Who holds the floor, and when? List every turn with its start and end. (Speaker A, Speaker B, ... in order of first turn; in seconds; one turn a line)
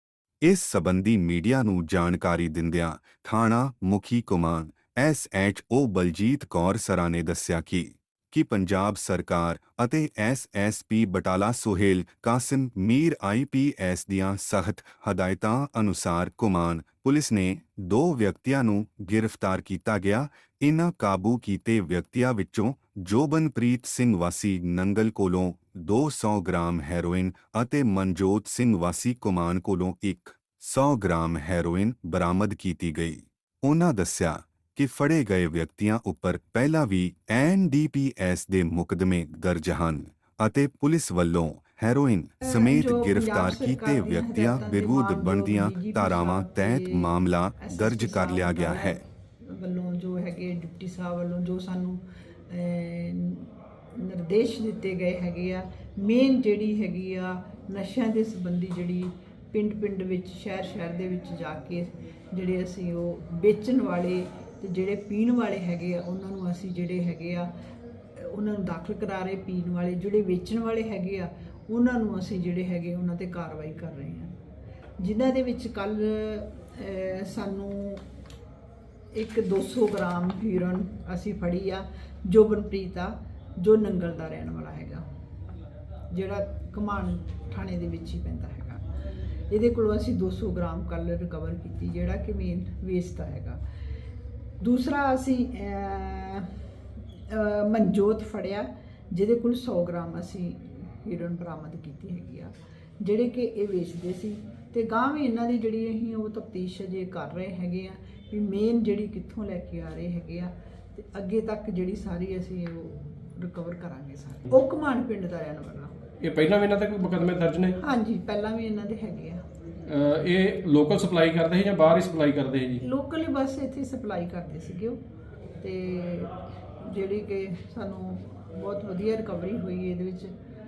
Speaker A: 0.4-49.0
Speaker B: 42.5-67.5
Speaker B: 68.2-74.4
Speaker B: 75.0-78.0
Speaker B: 79.1-85.0
Speaker B: 86.1-88.8
Speaker B: 89.5-93.6
Speaker B: 94.6-96.5
Speaker B: 97.3-116.0
Speaker C: 116.2-117.8
Speaker B: 117.8-119.4
Speaker C: 119.8-122.8
Speaker B: 122.8-125.0
Speaker B: 125.6-130.3